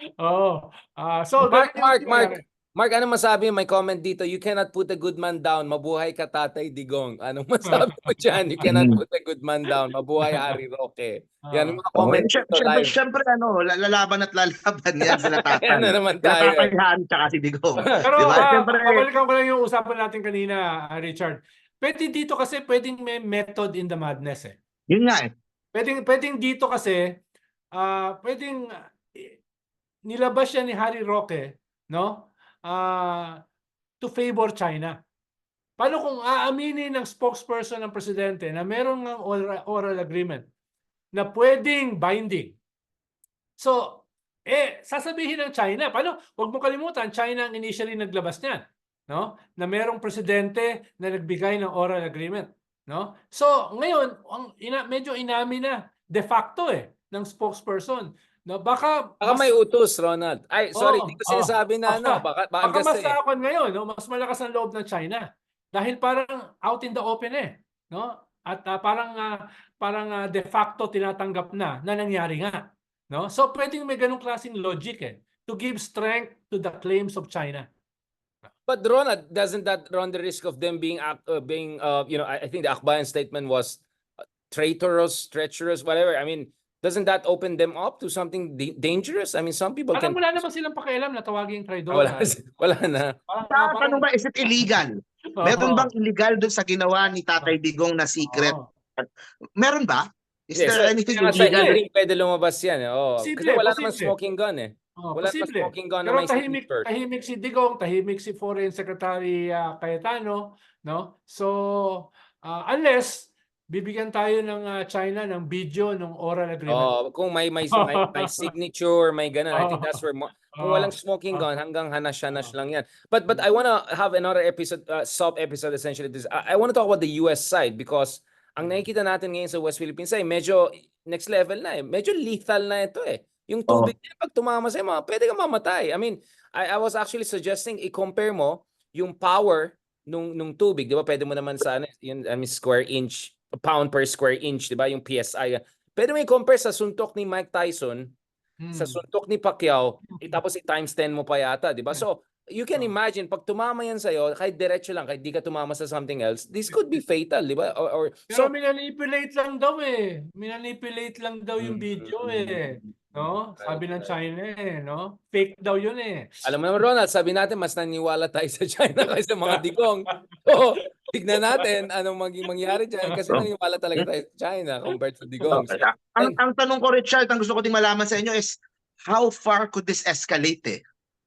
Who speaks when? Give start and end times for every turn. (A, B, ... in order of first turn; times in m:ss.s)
0:00.2-0:02.4 A
0:01.4-0:13.0 B
0:07.7-0:08.0 A
0:08.6-0:09.0 C
0:11.5-0:11.8 A
0:12.0-0:19.1 C
0:15.1-0:16.7 B
0:17.8-0:18.1 B
0:18.0-0:24.6 A
0:24.9-0:25.3 C
0:25.7-0:27.0 A
0:27.8-0:28.6 A
0:30.1-0:33.4 A
0:34.0-0:34.9 A
0:35.8-0:40.5 A
0:41.2-0:42.6 A
0:43.6-0:59.6 A
0:59.2-1:03.2 B
1:00.8-1:17.7 A
1:18.7-1:23.8 B
1:24.5-1:30.4 B
1:29.9-1:32.4 A
1:31.9-1:33.1 B
1:33.3-1:34.8 A
1:33.5-1:39.1 C
1:35.4-1:35.9 A
1:38.3-1:38.7 A
1:39.6-1:41.8 C
1:40.6-1:46.9 B
1:41.1-1:41.8 A
1:43.2-1:44.2 A
1:45.0-1:56.9 A
1:56.7-2:28.1 B
1:57.8-1:58.5 A
1:59.5-2:00.0 A
2:00.6-2:01.5 A
2:13.7-2:13.9 C
2:28.6-2:29.0 A
2:28.8-2:38.5 B
2:30.1-2:30.4 A
2:38.3-2:46.4 A
2:41.6-2:44.1 B
2:46.4-2:56.4 B
2:53.3-2:54.1 C
2:55.5-3:00.8 C